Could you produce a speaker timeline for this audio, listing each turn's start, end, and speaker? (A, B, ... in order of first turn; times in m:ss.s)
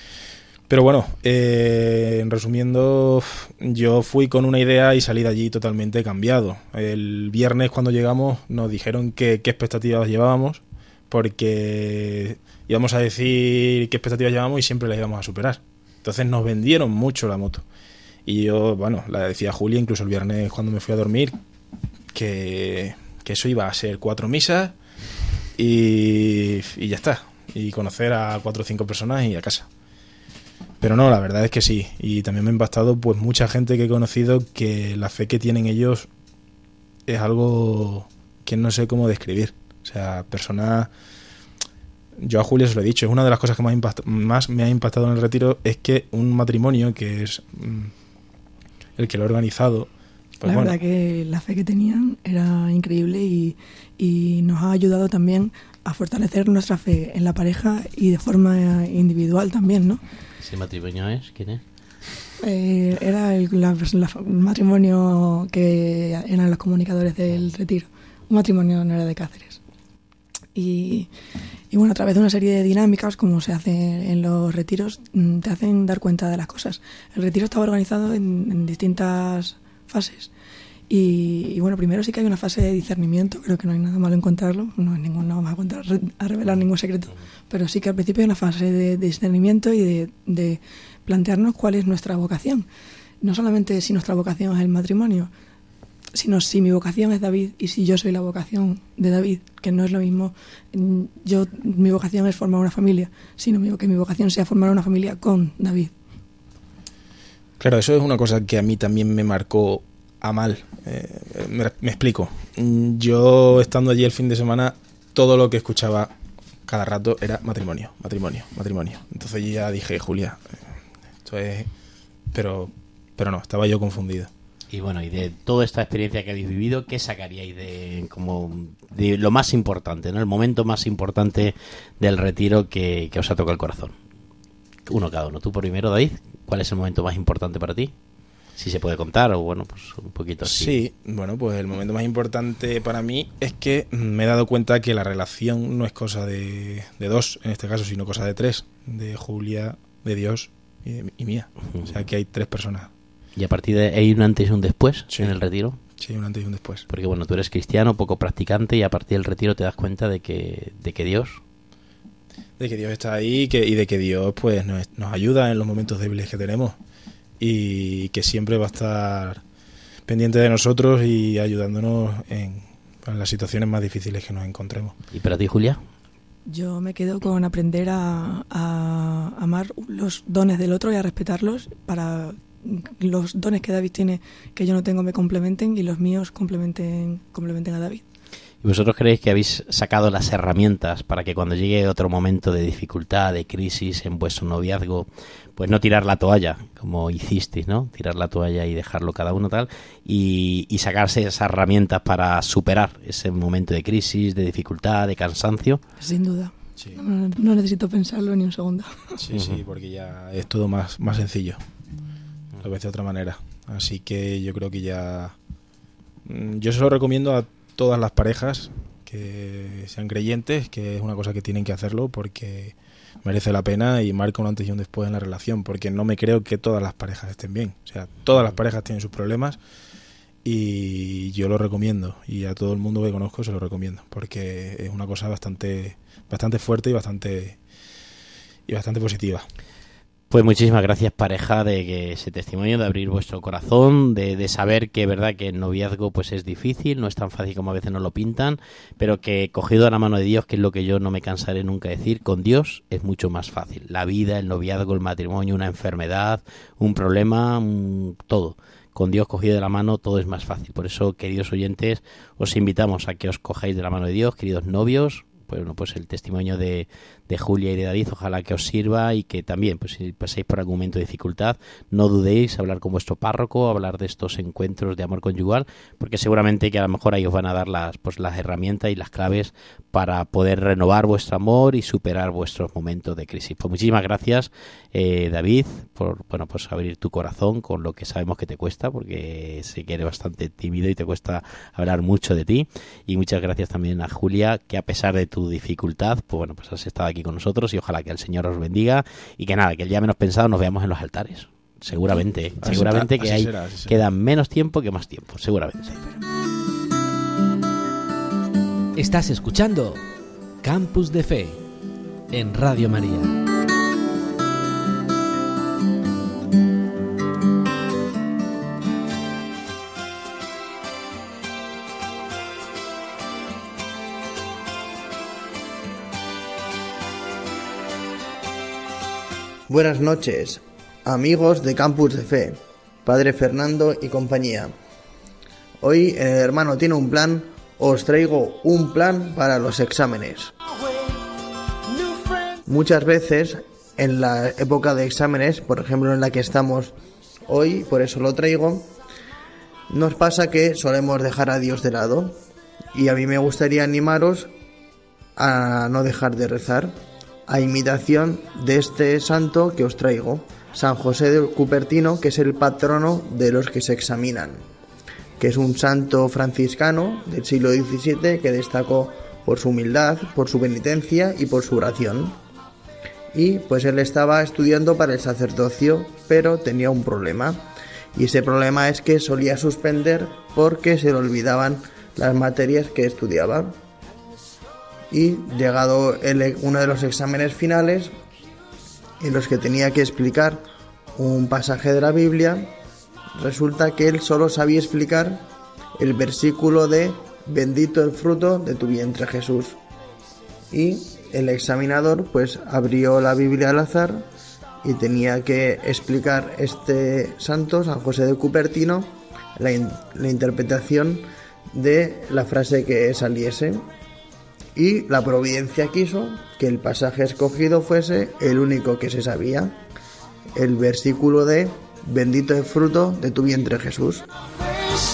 0:00.7-0:17.6 A
0:18.3-0:21.3 A
0:22.1-0:24.7 A
0:25.6-0:29.7 A
0:30.8-0:36.1 A
0:37.1-0:40.9 A
0:42.2-0:47.9 A
0:49.0-0:50.8 A
0:50.4-1:00.0 B
1:00.4-1:01.6 C
1:02.4-1:09.6 B
1:10.6-1:11.1 B
1:11.7-1:20.3 B
1:20.9-1:32.7 B
1:33.2-1:35.3 B
1:36.1-1:45.9 B
1:47.6-1:56.1 A
1:56.7-2:00.6 A
2:01.2-2:01.7 A
2:02.3-2:04.3 A
2:04.7-2:13.9 C
2:14.9-2:17.9 C
2:18.6-2:20.8 C
2:20.4-2:32.9 A
2:33.4-2:35.8 C
2:36.0-2:36.9 A
2:36.9-2:41.4 C
2:42.6-2:46.8 A
2:47.4-2:49.4 A
2:50.1-2:55.0 A
2:55.1-2:55.8 C
2:56.5-3:08.0 B
3:08.6-3:25.8 C
3:26.0-3:29.1 B
3:29.2-3:31.6 A
3:29.3-3:29.6 C
3:32.6-3:35.3 A
3:36.2-3:49.6 A
3:50.4-3:57.6 A
3:58.7-3:59.4 A
4:00.3-5:06.0 C
5:02.6-5:04.0 A
5:06.0-5:06.3 B
5:09.0-5:10.0 D
5:10.6-5:11.6 D
5:12.3-5:13.4 D
5:29.7-5:34.7 E
5:35.8-5:40.5 E
5:42.6-5:47.0 E
5:47.5-5:48.9 E
5:49.9-5:52.4 E
5:52.9-5:54.5 E
5:55.4-6:04.6 E
6:05.4-6:12.4 E
6:13.3-6:23.8 E
6:25.1-6:28.1 E
6:29.2-6:30.6 E
6:31.2-6:32.7 E
6:33.4-6:35.4 E
6:36.0-6:39.8 E
6:40.7-6:44.3 E
6:44.8-6:53.9 E
6:54.7-6:59.8 E
7:00.6-7:04.3 E